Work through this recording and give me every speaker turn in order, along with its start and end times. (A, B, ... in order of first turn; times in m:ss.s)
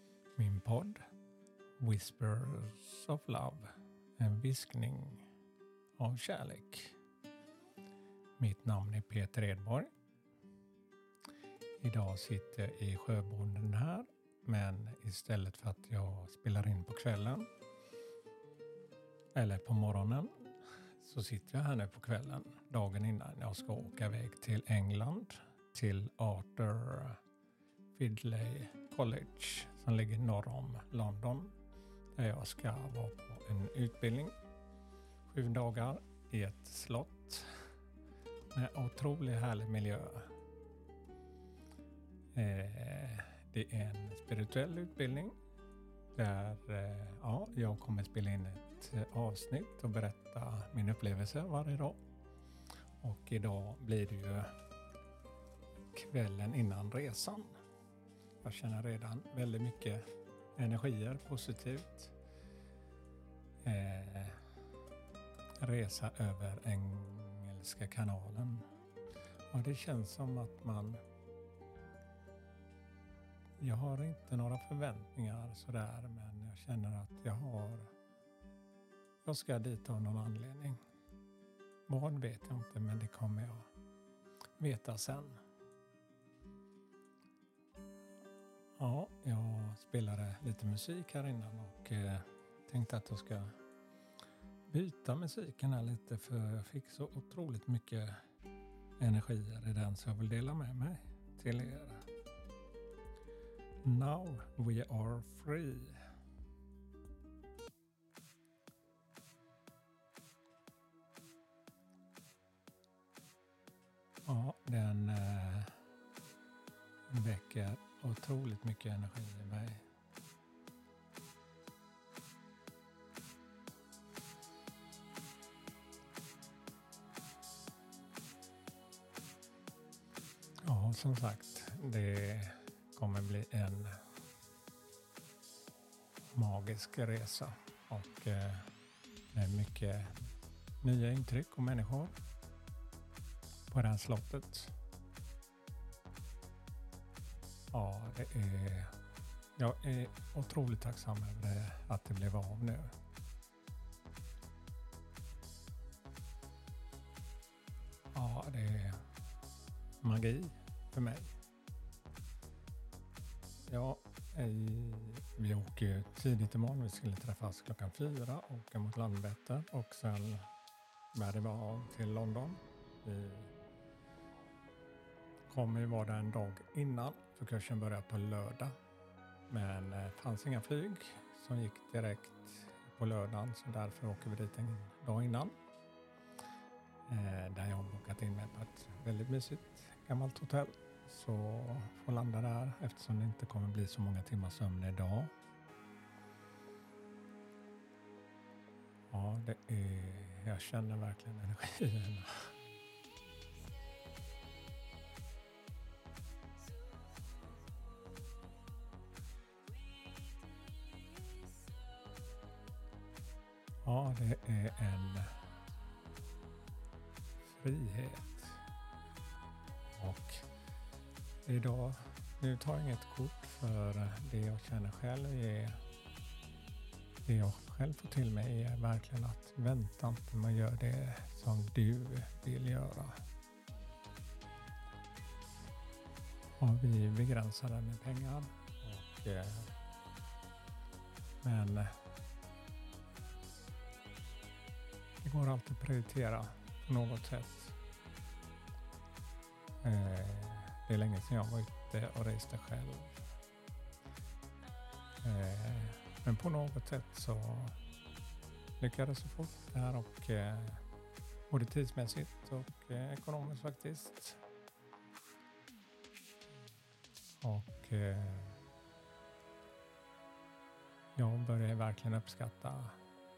0:00.4-0:01.0 A
0:01.8-0:05.3 A
0:06.0-0:07.0 A
0:08.4-0:09.9 A
0:11.8-0:17.5 A
0:19.3-0:27.2 A
0:27.9-0:31.5 A
0:32.1-0:34.4 A
0:35.3-0:37.5 A
0:38.5-0:40.3 A
0:42.3-0:45.4 A
0:46.1-0:52.0 A
0:53.0-0:54.5 A
0:55.9-0:57.6 A
0:58.4-1:00.0 A
1:00.6-1:02.1 A
1:03.6-1:04.4 A
1:05.6-1:08.7 A
1:09.5-1:11.0 A
1:13.6-1:17.9 A
1:19.2-1:20.8 A
1:21.9-1:23.7 A
1:24.6-1:25.4 A
1:28.8-1:33.6 A
1:34.7-1:38.2 A
1:39.0-1:42.0 A
1:43.8-1:46.0 A
1:54.2-1:55.8 A
1:57.1-1:59.8 A
2:10.6-2:14.0 A
2:16.3-2:18.7 A
2:19.3-2:22.1 A
2:23.7-2:24.8 A
2:27.7-2:29.0 A
2:29.6-2:32.9 A
2:38.1-2:39.0 A
2:40.0-2:41.4 A
2:43.7-2:50.4 A
2:51.1-2:53.5 A
2:55.5-2:58.8 A
2:59.5-3:05.5 A
3:07.1-3:15.3 A
3:19.1-3:22.5 A
3:33.8-3:35.4 A
3:37.4-3:38.6 A
3:39.9-3:40.5 A
3:41.4-3:45.8 A
3:47.2-3:53.2 A
3:56.6-3:59.7 A
4:01.4-4:02.0 A
4:05.2-4:07.8 A
4:09.8-4:13.2 A
4:15.2-4:17.8 A
4:18.8-4:20.8 A
4:21.5-4:24.4 A
4:27.4-4:28.6 A
4:31.2-4:33.0 A